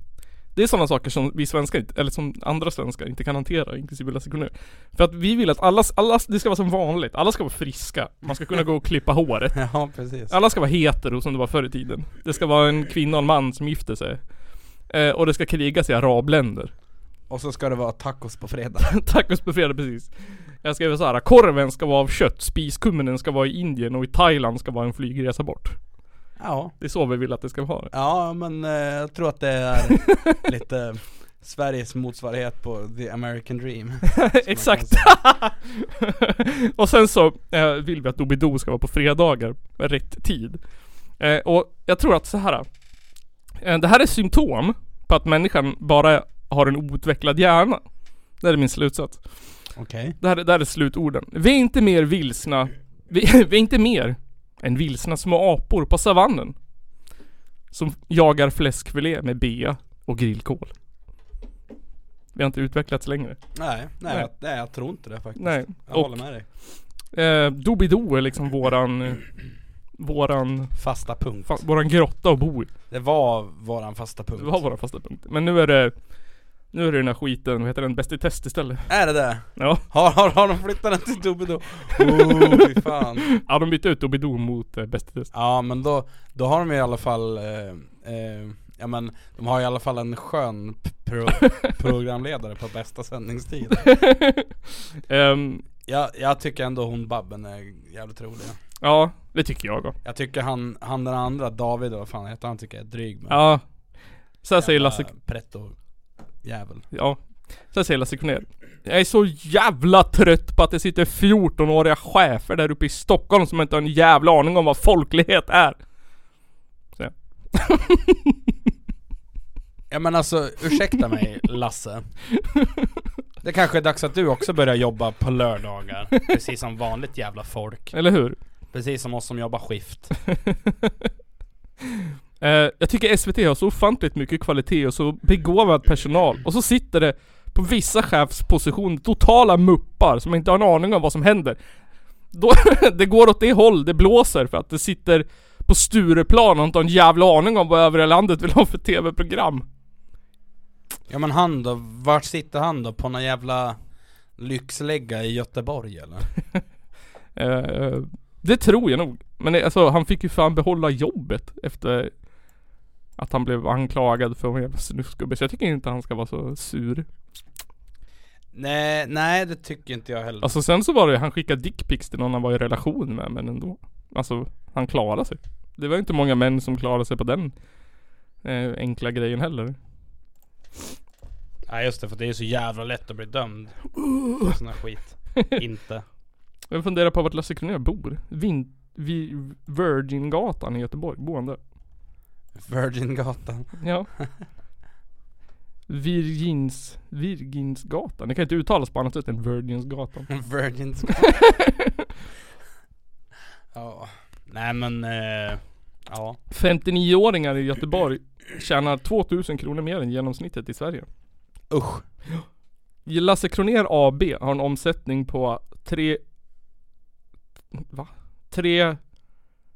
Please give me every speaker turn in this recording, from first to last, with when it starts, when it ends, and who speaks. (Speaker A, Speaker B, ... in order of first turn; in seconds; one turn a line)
Speaker A: 0.5-9.7
Speaker B: 9.5-10.3
Speaker A: 10.3-14.3
Speaker A: 14.8-16.7
Speaker B: 17.3-18.9
Speaker A: 18.8-25.8
Speaker B: 26.4-26.7
Speaker A: 26.8-27.9
Speaker B: 27.9-35.2
Speaker A: 34.2-40.6
Speaker A: 41.2-42.7
Speaker A: 43.6-47.8
Speaker A: 48.4-49.4
Speaker B: 49.8-50.1
Speaker A: 50.2-56.5
Speaker A: 57.7-60.7
Speaker A: 62.3-63.4
Speaker B: 63.5-66.5
Speaker A: 65.4-69.3
Speaker A: 70.0-70.8
Speaker B: 70.8-71.6
Speaker A: 71.4-72.7
Speaker B: 72.9-74.6
Speaker A: 74.4-76.0
Speaker A: 76.7-78.9
Speaker B: 78.9-83.3
Speaker A: 79.5-79.8
Speaker A: 82.0-82.7
Speaker A: 83.3-85.3
Speaker B: 85.3-94.0
Speaker A: 93.8-95.6
Speaker B: 95.8-98.6
Speaker A: 98.8-99.9
Speaker B: 100.0-103.4
Speaker A: 103.3-103.7
Speaker A: 104.4-105.1
Speaker B: 104.6-105.8
Speaker B: 106.4-106.8
Speaker A: 106.9-115.8
Speaker A: 117.0-118.3
Speaker B: 119.9-122.1
Speaker B: 123.4-128.0
Speaker A: 127.9-128.4
Speaker B: 128.7-130.1
Speaker A: 130.3-130.9
Speaker A: 132.4-141.6
Speaker A: 142.3-149.7
Speaker B: 151.1-153.8
Speaker B: 154.3-156.3
Speaker A: 157.3-162.2
Speaker A: 163.2-167.1
Speaker B: 168.5-170.6
Speaker A: 170.4-177.6
Speaker A: 178.4-179.8
Speaker B: 181.7-186.0
Speaker A: 184.1-184.5
Speaker A: 186.7-191.6
Speaker B: 192.5-194.3
Speaker A: 193.8-194.1
Speaker A: 195.9-200.3
Speaker B: 200.3-201.4
Speaker A: 201.2-201.9
Speaker B: 203.7-206.4
Speaker A: 206.5-211.1
Speaker B: 211.7-212.0
Speaker A: 213.1-216.2
Speaker A: 217.7-219.0